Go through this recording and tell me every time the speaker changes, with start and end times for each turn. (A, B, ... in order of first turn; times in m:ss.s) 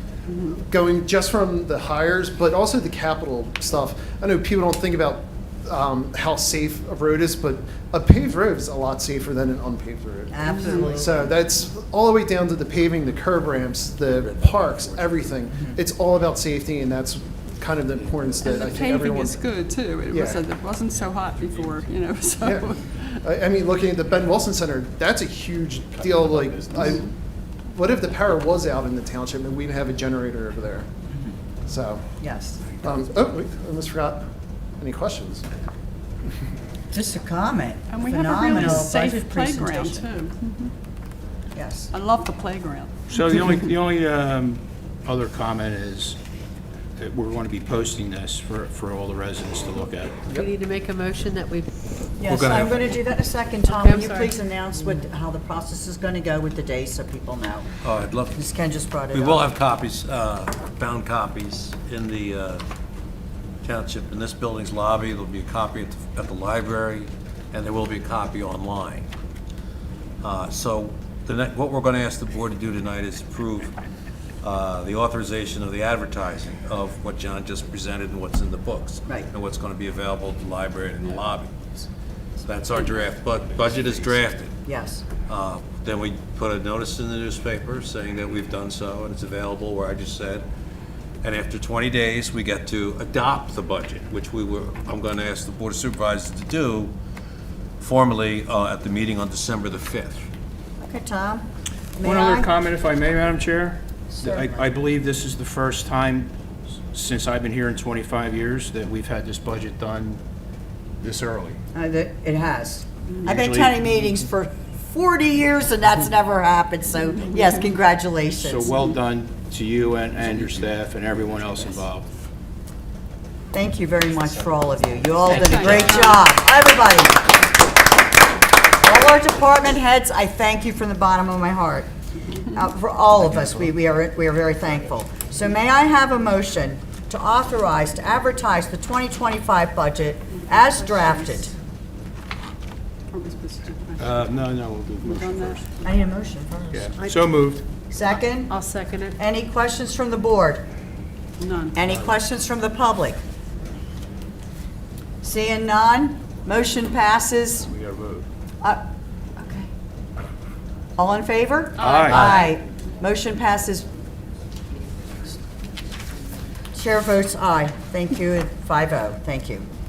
0:00.3-0:00.6 A
0:00.7-0:19.5 B
0:10.3-0:11.3 C
0:10.5-0:10.9 A
0:14.1-0:15.2 D
0:18.4-0:23.2 A
0:20.1-0:20.4 B
0:22.4-0:27.1 B
0:27.7-0:30.9 B
0:31.7-0:32.0 B
0:32.2-0:32.6 C
0:32.8-0:35.4 B
0:36.9-0:40.0 C
0:37.9-0:40.7 A
0:41.6-0:41.9 C
0:41.9-0:42.9 A
0:43.1-0:46.2 E
0:47.0-0:50.2 E
0:50.3-0:51.8 F
0:52.2-0:57.7 C
0:52.2-0:52.9 D
0:53.6-0:54.4 F
0:57.8-0:58.4 D
0:58.3-0:59.4 C
0:59.1-1:02.6 D
1:03.6-1:09.1 D
1:10.2-1:13.7 D
1:14.4-1:21.6 D
1:22.4-1:24.5 D
1:24.6-1:25.0 C
1:25.3-1:30.5 D
1:31.2-1:36.9 D
1:37.8-1:40.3 D
1:40.8-1:42.5 C
1:42.0-1:46.3 E
1:44.1-1:44.7 C
1:46.9-1:50.2 E
1:51.0-1:51.6 E
1:51.7-1:58.7 C
1:53.2-1:53.8 E
1:58.4-2:02.1 E
2:03.5-2:07.4 C
2:05.3-2:06.2 A
2:08.8-2:11.9 C
2:12.5-2:21.5 C
2:20.5-2:21.5 A
2:23.1-2:24.2 A
2:24.0-2:25.7 E
2:25.0-2:25.6 A
2:25.8-2:26.9 C
2:26.7-2:27.6 E
2:27.0-2:27.2 F
2:27.9-2:28.6 C
2:28.5-2:29.2 F
2:29.2-2:30.6 C
2:31.4-2:31.8 A
2:31.7-2:33.2 C
2:35.2-2:37.7 C
2:37.7-2:38.2 E
2:39.4-2:39.7 F
2:41.0-2:43.9 C
2:41.8-2:42.4 E
2:46.7-2:49.7 C